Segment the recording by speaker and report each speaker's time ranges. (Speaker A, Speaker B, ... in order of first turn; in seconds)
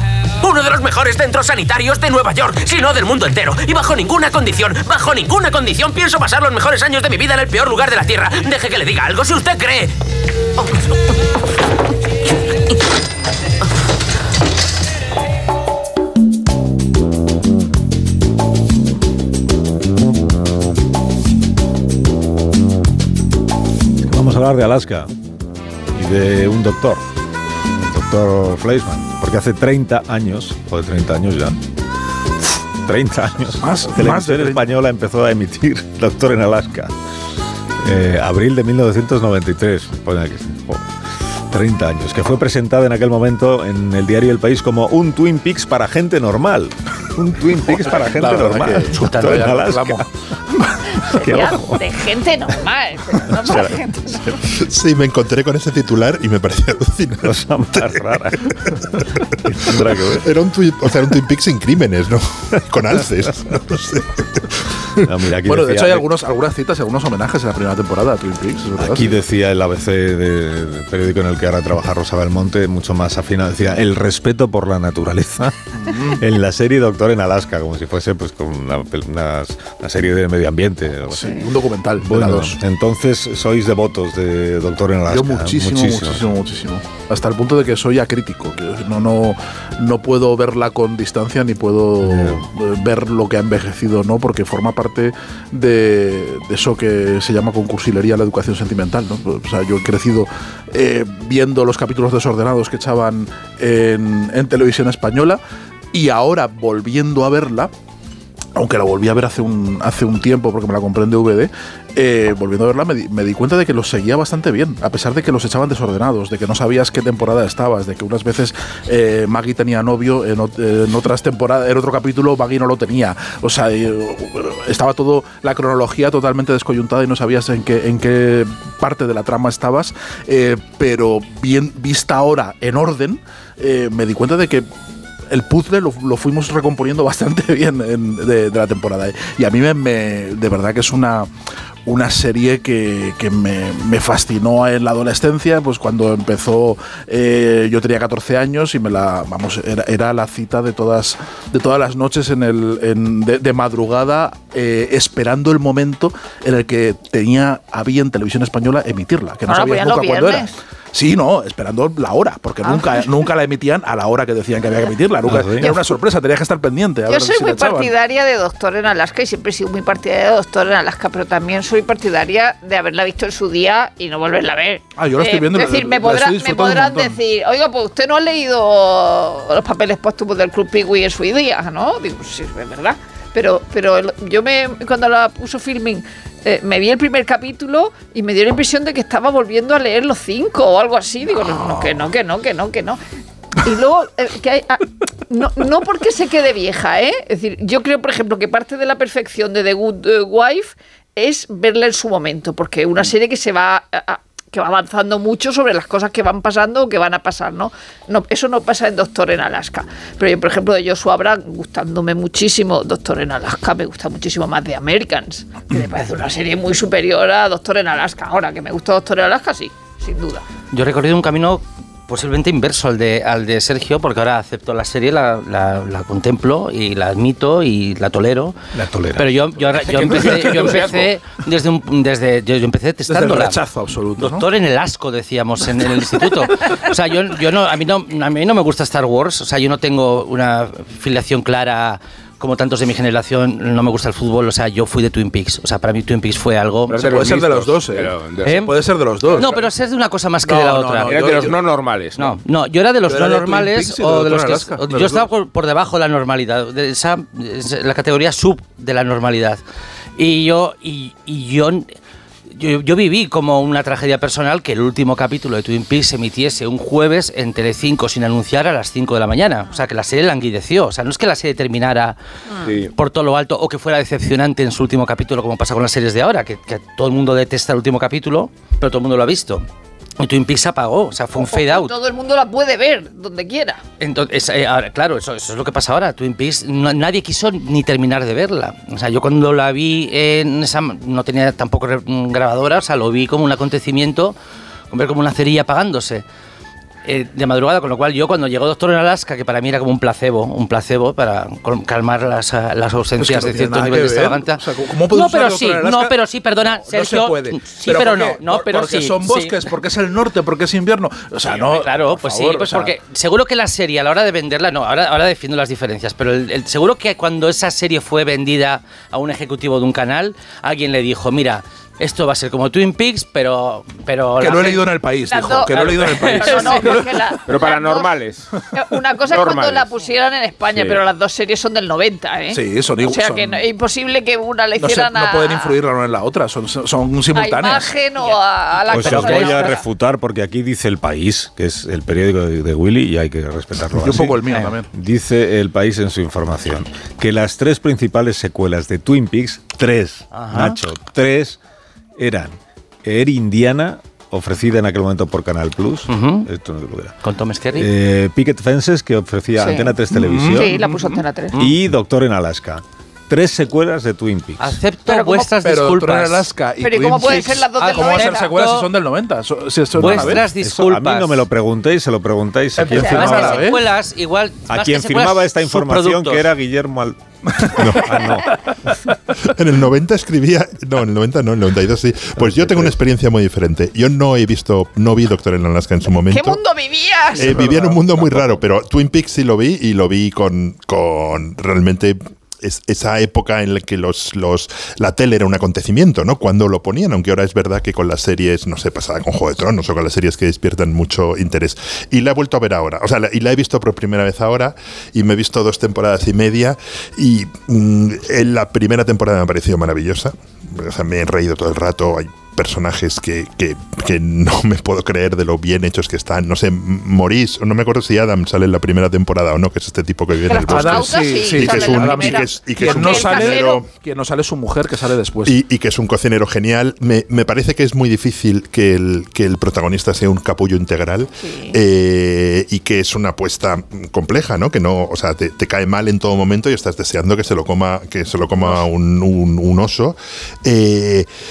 Speaker A: 0.4-9.9
Speaker B: 24.0-25.1, 25.9-27.0, 27.9-31.6, 32.4-36.9, 37.8-40.9, 41.5-50.1, 51.1-51.8, 53.3-54.4, 57.2-60.3, 65.0-66.1, 68.8-75.5, 76.2-81.4, 82.0-86.3, 92.0-92.4, 165.2-165.7, 228.7-229.3, 338.9-351.6, 352.2-357.1, 357.7-360.7, 361.6-364.8, 370.0-373.6, 374.7-377.2, 377.8-378.5, 382.4-382.9
Speaker C: 33.6-34.6, 47.7-50.8, 65.4-69.2, 75.8-76.2, 81.1-82.6, 85.1-105.4, 105.9-107.7, 108.5-134.7, 135.3-141.3, 141.8-167.9, 174.9-177.2, 191.4-192.0, 233.1-234.5, 247.0-249.7, 250.4-251.6, 253.1-255.3, 303.2-312.9, 324.4-327.4, 332.5-333.6, 334.8-338.0, 338.9-339.5, 343.9-344.9, 360.1-361.2, 365.1-370.5, 372.8-373.8, 387.4-388.1, 420.7-425.6
Speaker D: 48.9-49.5, 220.7-228.6, 229.2-233.6, 234.2-247.0, 248.4-248.7, 249.4-251.2, 252.2-259.6, 260.2-261.9, 262.5-272.1, 272.9-279.6, 280.2-281.9, 284.0-294.4, 294.9-296.2, 297.0-309.6, 311.4-324.8, 325.8-326.9, 339.0-339.6, 350.3-350.8, 356.1-356.5, 357.2-357.9, 364.6-366.5, 367.8-368.9, 370.0-371.4, 372.9-376.4
Speaker E: 51.1-54.3, 159.5-160.5, 162.6-163.0, 167.1-193.0, 193.6-220.4, 281.4-283.8, 325.3-328.1, 328.8-335.8, 337.3-339.8, 359.6-360.0, 360.5-361.6, 366.8-368.6, 373.0-373.5, 386.3-387.6, 420.4-423.8, 431.4-431.8
Speaker F: 54.5-57.3, 60.1-64.4, 377.8-378.1, 379.5-386.6, 387.3-423.8, 425.4-441.3
Speaker G: 229.7-231.1, 246.9-248.7, 249.2-249.5, 251.1-252.3, 327.4-328.5, 329.3-329.9, 330.7-331.0